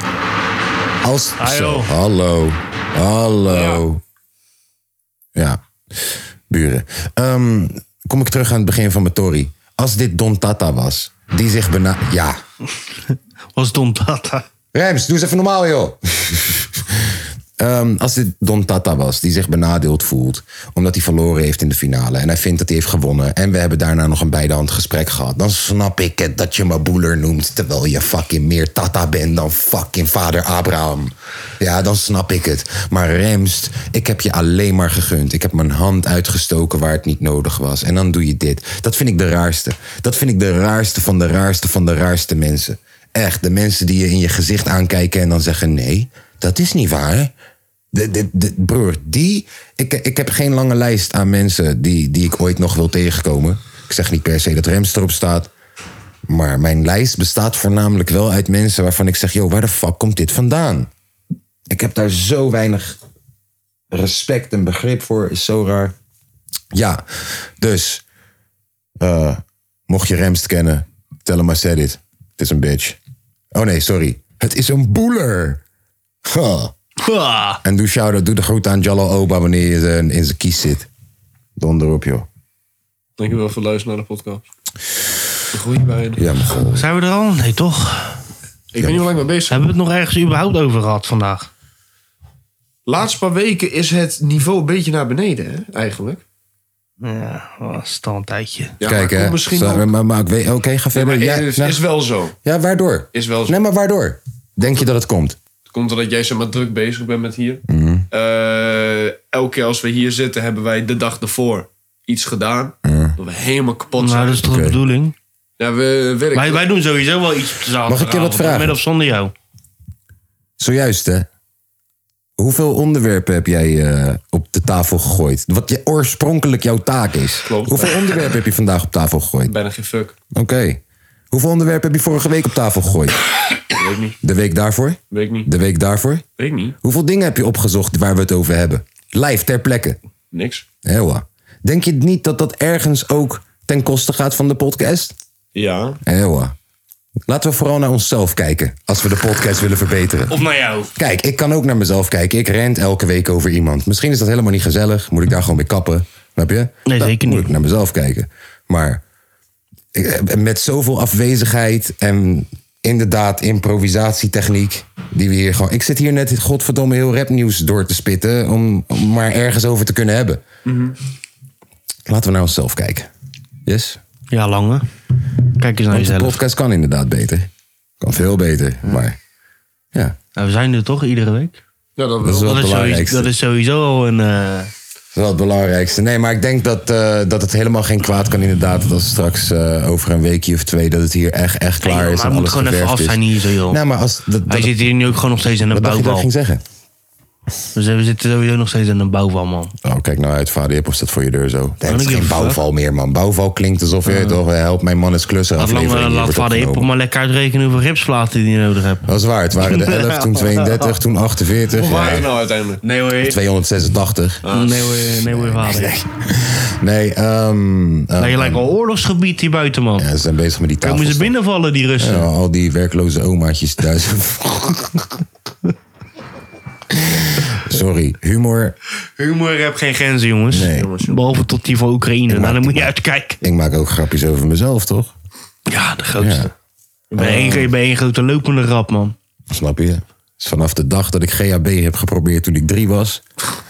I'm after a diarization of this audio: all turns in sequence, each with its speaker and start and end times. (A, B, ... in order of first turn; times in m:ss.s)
0:01.0-0:04.0 A
0:01.4-0:01.9 B
0:03.5-0:03.8 C
0:05.4-0:12.4 A
0:13.1-0:14.4 B
0:14.7-0:47.3 A
0:47.9-0:55.5 A
0:56.3-1:00.9 A
1:01.7-1:03.0 A
1:03.9-1:06.0 A
1:06.7-1:08.0 A
1:09.0-1:13.0 A
1:13.5-1:15.6 A
1:16.2-1:16.7 A
1:17.0-1:17.6 B
1:17.6-1:20.9 A
1:21.6-1:22.3 A
1:23.2-1:24.4 C
1:25.5-1:26.2 C
1:26.2-1:26.8 A
1:26.7-1:28.2 B
1:28.7-1:29.7 C
1:28.8-1:29.0 A
1:29.5-1:31.5 B
1:32.9-1:36.2 C
1:37.0-1:38.8 B
1:38.8-1:39.9 C
1:38.8-1:41.8 A
1:40.9-1:42.4 C
1:42.4-1:45.4 A
1:43.1-1:43.6 C
1:45.7-1:54.5 C
1:47.7-1:48.1 A
1:52.8-1:53.2 A
1:54.0-1:55.2 B
1:54.4-1:54.8 A
1:55.6-1:56.6 C
1:56.4-1:59.3 B
1:57.9-1:58.8 A
2:00.6-2:01.3 A
2:02.4-2:09.5 A
2:07.5-2:08.1 C
2:09.5-2:10.2 C
2:10.3-2:13.2 A
2:13.8-2:14.2 C
2:14.2-2:16.2 A
2:15.1-2:15.5 C
2:16.4-2:16.8 C
2:16.8-2:20.0 A
2:20.3-2:20.6 C
2:20.8-2:25.2 A
2:25.6-2:26.0 C
2:26.0-2:26.5 A
2:27.3-2:30.4 A
2:30.3-2:30.9 B
2:31.0-2:39.0 A
2:36.8-2:37.5 B
2:39.9-2:50.4 A
2:50.7-2:51.0 C
2:52.1-2:53.1 A
2:53.7-2:54.0 A
2:54.3-2:54.8 B
2:55.6-2:56.4 B
2:55.9-2:57.5 A
2:58.0-2:59.2 A
3:00.4-3:01.6 B
3:02.0-3:02.5 C
3:02.2-3:03.3 A
3:02.4-3:04.7 B
3:05.1-3:14.8 A
3:11.8-3:13.8 B
3:14.5-3:16.3 B
3:15.7-3:16.6 A
3:17.8-3:19.7 B
3:19.8-3:26.9 A
3:21.8-3:22.6 B
3:24.1-3:24.4 B
3:25.6-3:29.1 B
3:29.1-3:32.3 A
3:29.6-3:30.9 B
3:31.7-3:32.8 C
3:32.8-3:33.4 B
3:33.1-3:34.4 A
3:34.4-3:35.1 C
3:34.5-3:36.0 B
3:35.0-3:38.7 A
3:38.2-3:40.1 B
3:40.0-3:41.3 A
3:40.8-3:42.3 B
3:42.0-3:45.0 A
3:46.9-3:48.8 A
3:49.2-3:53.4 B
3:50.5-3:50.9 A
3:50.7-3:51.2 C
3:52.3-3:55.2 A
3:55.7-3:56.5 B
3:56.2-3:56.5 A
3:57.1-3:57.7 A
3:57.2-3:59.2 B
3:59.5-4:03.2 A